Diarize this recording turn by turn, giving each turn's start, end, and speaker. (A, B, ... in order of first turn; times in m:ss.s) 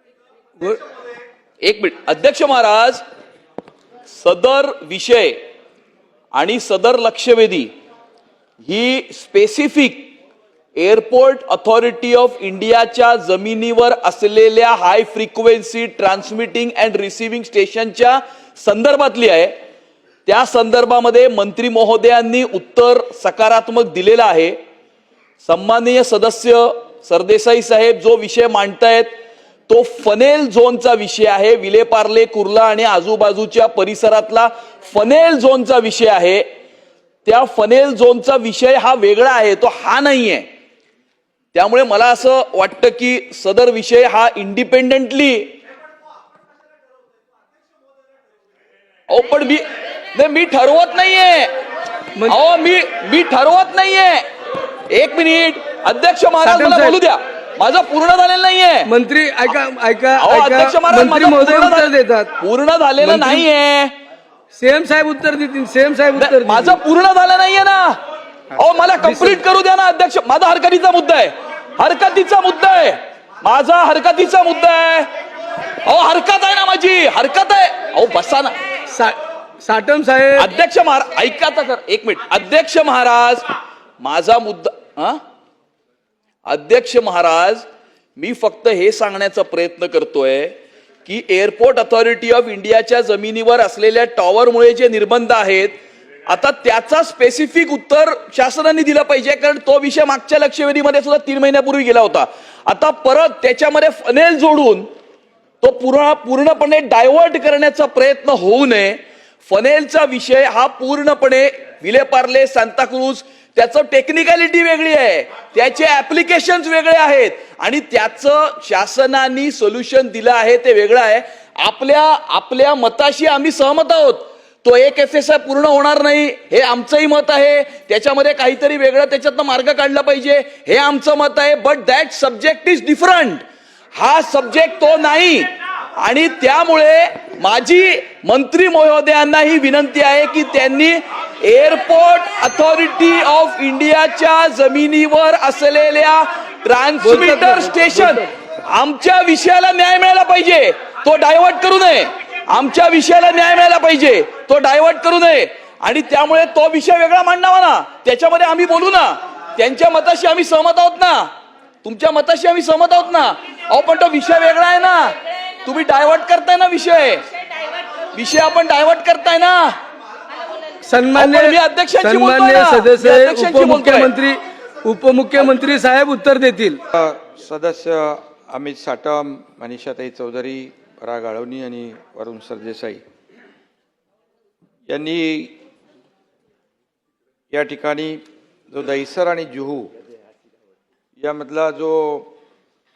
0:01.6-0:03.0 A
0:04.1-0:05.4 A
0:06.3-0:07.7 A
0:08.6-0:10.1 A
0:10.8-0:19.6 A
0:20.3-0:24.6 A
0:25.4-0:29.1 A
0:29.7-0:36.4 A
0:37.2-0:40.5 A
0:41.5-0:45.6 A
0:49.1-0:51.5 A
0:52.3-0:54.2 A
0:54.9-0:58.9 A
0:56.4-0:57.0 B
0:58.9-1:02.3 B
1:00.2-1:03.9 A
1:03.0-1:03.5 B
1:04.6-1:06.8 B
1:06.1-1:08.0 A
1:08.6-1:15.1 A
1:09.0-1:09.4 B
1:15.8-1:18.6 A
1:18.9-1:20.5 B
1:20.4-1:23.5 A
1:24.0-1:25.2 A
1:26.5-1:27.6 A
1:28.2-1:35.8 A
1:36.3-1:44.9 A
1:45.6-2:13.4 A
2:14.0-2:41.3 A
2:27.0-2:28.3 B
2:41.8-2:47.3 A
2:48.1-2:49.8 A
2:50.8-2:56.8 B
2:51.1-2:54.1 A
2:56.9-3:03.0 C
3:04.9-3:05.6 C
3:07.5-3:09.9 C
3:11.2-3:12.3 C